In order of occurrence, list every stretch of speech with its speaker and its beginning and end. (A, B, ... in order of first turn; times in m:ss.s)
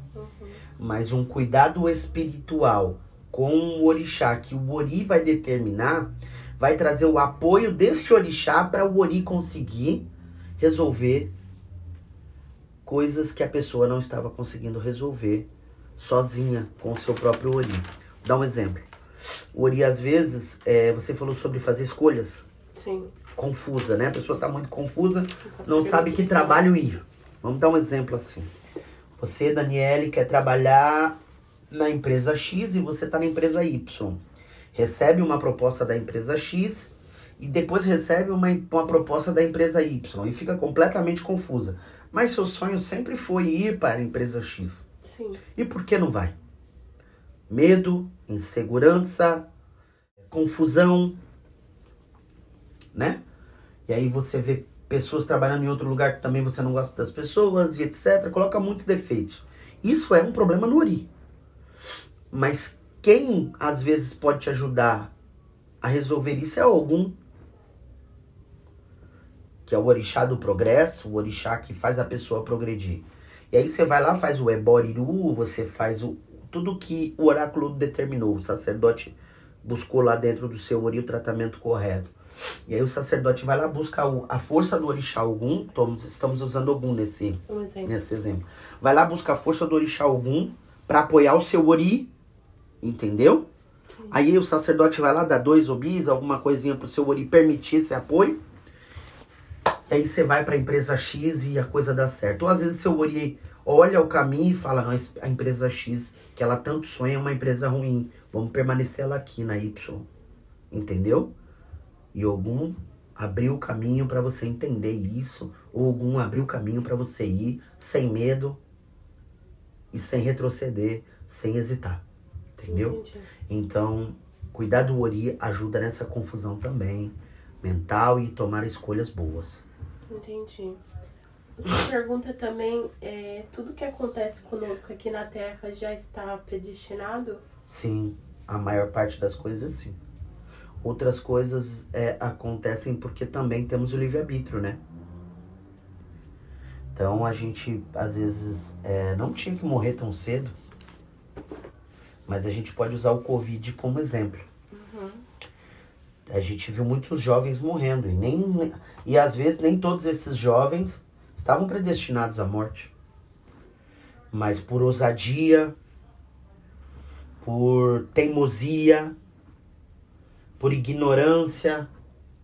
0:00.1-0:00.6 A
0:00.8-0:10.1 B
0:10.6-0:11.3 B
0:12.8-0:18.9 B
0:19.5-0:22.4 B
0:22.7-0:23.1 A
0:23.3-0:28.5 B
0:25.4-0:26.7 A
0:29.2-0:31.1 B
0:31.7-0:34.2 B
0:34.7-0:44.8 B
0:45.0-0:45.4 A
0:45.5-0:46.3 B
0:47.5-0:49.4 B
0:50.3-0:51.2 B
0:52.9-0:53.2 B
0:53.9-1:01.1 B
1:02.3-1:05.1 B
1:05.8-1:07.2 B
1:09.6-1:22.1 B
1:22.6-1:32.1 B
1:27.5-1:27.9 A
1:32.8-1:33.5 B
1:33.9-1:34.2 A
1:34.1-1:38.4 B
1:39.9-1:50.1 B
1:50.7-1:51.3 B
1:52.1-1:58.6 B
1:59.9-2:02.0 B
2:02.6-2:03.0 B
2:02.7-2:03.3 A
2:03.5-2:09.6 B
2:10.1-2:10.8 A
2:11.6-2:17.4 A
2:17.7-2:20.0 B
2:20.8-2:24.8 B
2:26.9-2:30.5 B
2:32.2-2:34.4 B
2:34.7-2:35.2 A
2:36.2-2:42.9 B
2:44.3-2:45.7 B
2:47.4-2:49.1 B
2:50.6-2:51.9 B